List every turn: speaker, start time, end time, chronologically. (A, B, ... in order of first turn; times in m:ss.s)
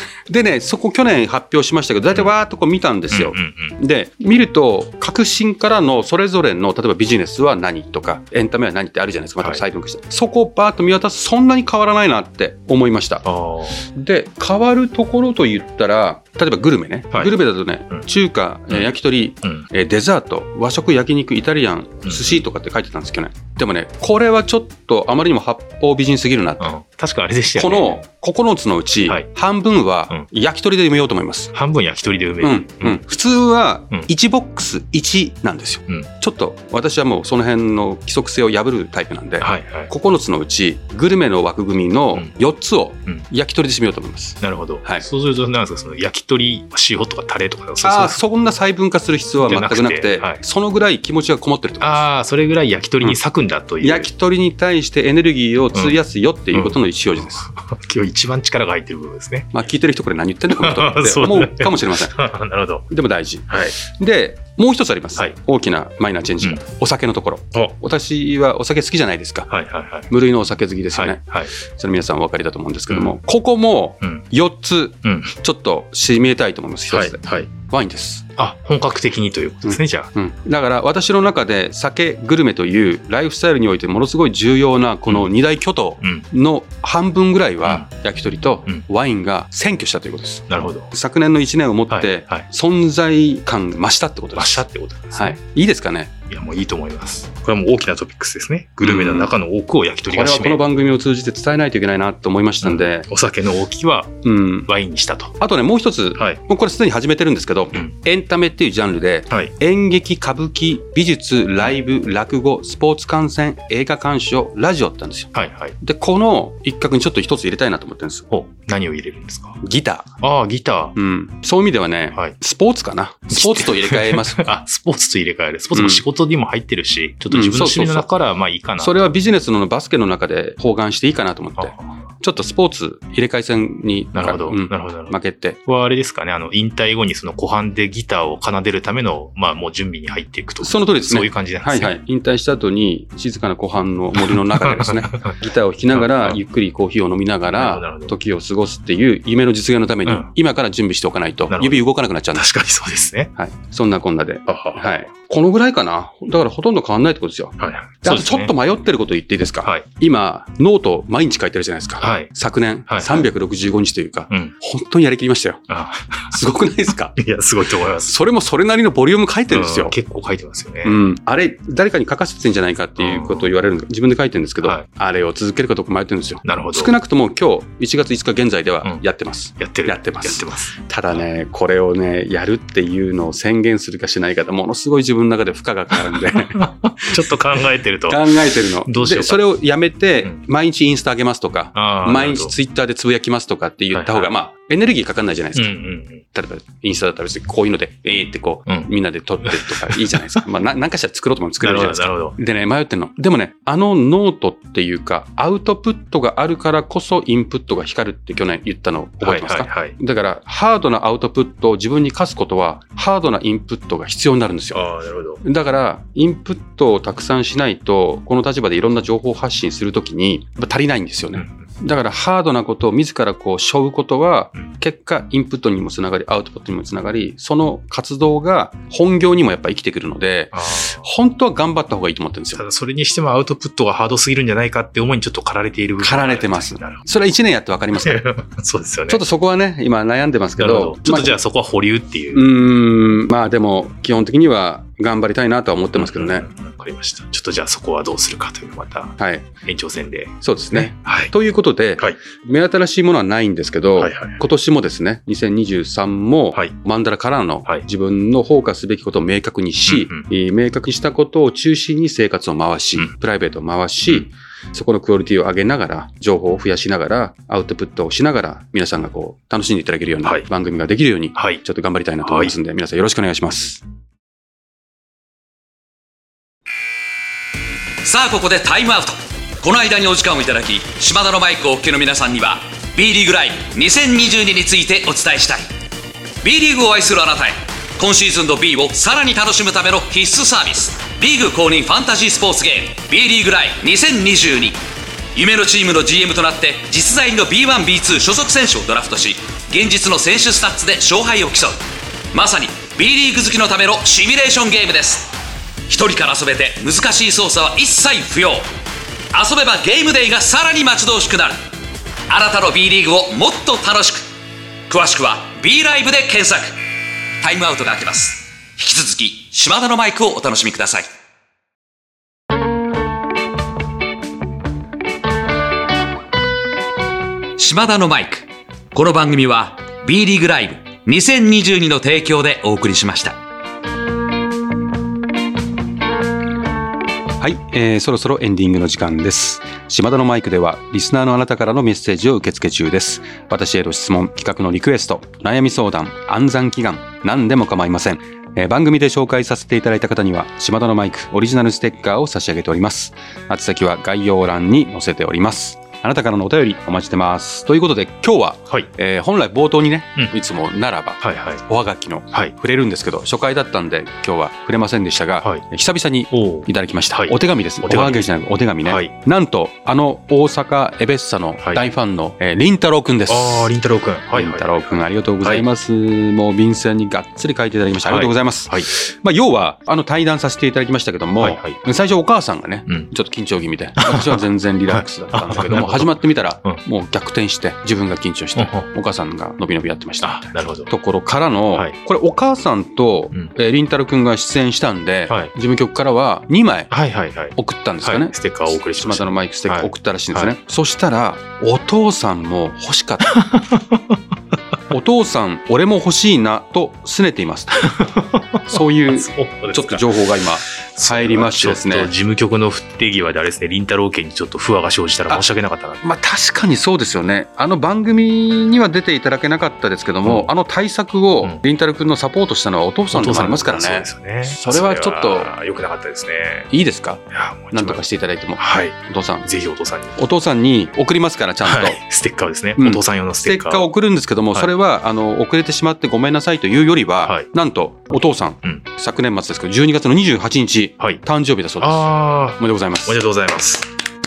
0:00.3-0:13.2 A
0:03.1-0:03.8 B
0:13.2-0:13.8 B
0:13.9-0:26.7 A
0:22.0-0:22.4 B
0:26.6-0:28.0 B
0:27.6-0:31.5 A
0:31.5-0:33.0 B
0:32.4-0:45.1 A
0:39.4-0:39.9 B
0:44.4-0:48.2 B
0:47.8-0:52.1 A
0:49.3-0:50.4 B
0:51.8-0:54.1 B
0:53.8-0:57.5 A
0:56.5-0:59.5 B
0:59.5-1:02.2 A
1:00.5-1:02.9 B
1:02.9-1:09.5 A
1:03.5-1:03.8 B
1:09.5-1:10.1 B
1:10.1-1:18.3 A
1:10.9-1:11.5 B
1:12.9-1:13.2 B
1:15.0-1:15.3 B
1:16.9-1:17.5 B
1:18.4-1:20.1 B
1:19.6-1:36.1 A
1:30.5-1:30.9 B
1:31.9-1:32.4 B
1:34.4-1:35.4 B
1:36.3-1:40.6 B
1:38.8-1:39.3 A
1:40.1-1:43.1 A
1:42.6-1:44.1 B
1:44.2-1:44.7 A
1:44.7-1:45.4 B
1:45.4-1:58.3 A
1:55.3-1:55.8 B
1:58.3-1:59.6 B
1:59.6-2:00.1 A
2:00.2-2:01.0 B
2:01.0-2:04.5 A
2:03.3-2:09.0 B
2:05.7-2:06.0 A
2:07.3-2:08.1 A
2:08.8-2:15.6 A
2:11.6-2:11.9 B
2:14.1-2:22.0 B
2:20.6-2:32.5 A
2:24.2-2:26.4 B
2:27.5-2:28.2 B
2:31.5-2:33.3 B
2:33.4-2:45.6 A
2:34.5-2:34.9 B
2:37.6-2:38.5 B
2:42.0-2:42.3 B
2:42.9-2:43.3 B
2:45.7-2:46.4 B
2:46.3-2:47.2 A
2:47.2-2:48.2 B
2:48.1-2:50.0 A
2:49.5-2:51.0 B
2:50.8-3:07.1 A
2:53.0-2:53.5 B
2:56.4-2:56.9 B
2:59.6-3:00.7 B
3:06.3-3:09.4 B
3:08.1-3:15.8 A
3:11.7-3:12.5 B
3:13.9-3:14.3 B
3:15.5-3:16.2 B
3:16.3-3:34.8 A
3:19.5-3:20.4 B
3:21.6-3:22.4 B
3:29.2-3:30.0 B
3:34.7-3:35.4 B
3:35.4-3:52.6 A
3:41.4-3:41.7 B
3:50.5-3:51.0 B
3:52.5-3:57.0 B
3:56.0-3:58.2 A
3:57.9-3:59.2 B
3:59.1-4:01.4 A
4:00.6-4:02.5 B
4:02.3-4:06.5 A
4:06.0-4:11.3 B
4:09.2-4:09.5 A
4:10.4-4:33.8 A
4:14.0-4:14.4 B
4:19.9-4:20.3 B
4:31.4-4:31.6 B
4:32.2-4:32.5 B
4:38.0-4:45.7 C
4:46.4-4:54.8 C
4:55.4-5:01.8 C
5:02.3-5:05.3 C
5:05.9-5:08.7 C
5:09.3-5:11.6 C
5:12.3-5:14.3 C
5:14.9-5:16.8 C
5:17.4-5:21.1 C
5:27.6-5:33.4 C
5:37.4-6:13.7 A
6:01.2-6:01.6 B
6:06.3-6:08.3 B
6:08.8-6:09.1 B
6:13.3-6:15.6 B
6:14.3-6:36.9 A
6:18.0-6:18.9 B
6:21.4-6:21.8 B
6:24.0-6:26.8 B
6:28.6-6:28.9 B
6:30.2-6:30.9 B
6:36.9-6:40.5 B
6:37.6-6:43.4 A
6:43.2-6:44.2 B
6:44.9-6:48.0 A
6:47.8-6:50.1 B
6:48.7-6:52.1 A
6:50.9-6:56.0 B
6:56.0-7:05.5 A
7:00.2-7:00.5 B
7:03.1-7:06.7 B
7:06.7-7:09.5 A
7:07.3-7:08.0 B
7:08.6-7:10.2 B
7:10.2-7:12.0 A
7:11.6-7:13.9 B
7:12.8-7:23.2 A
7:21.8-7:23.9 B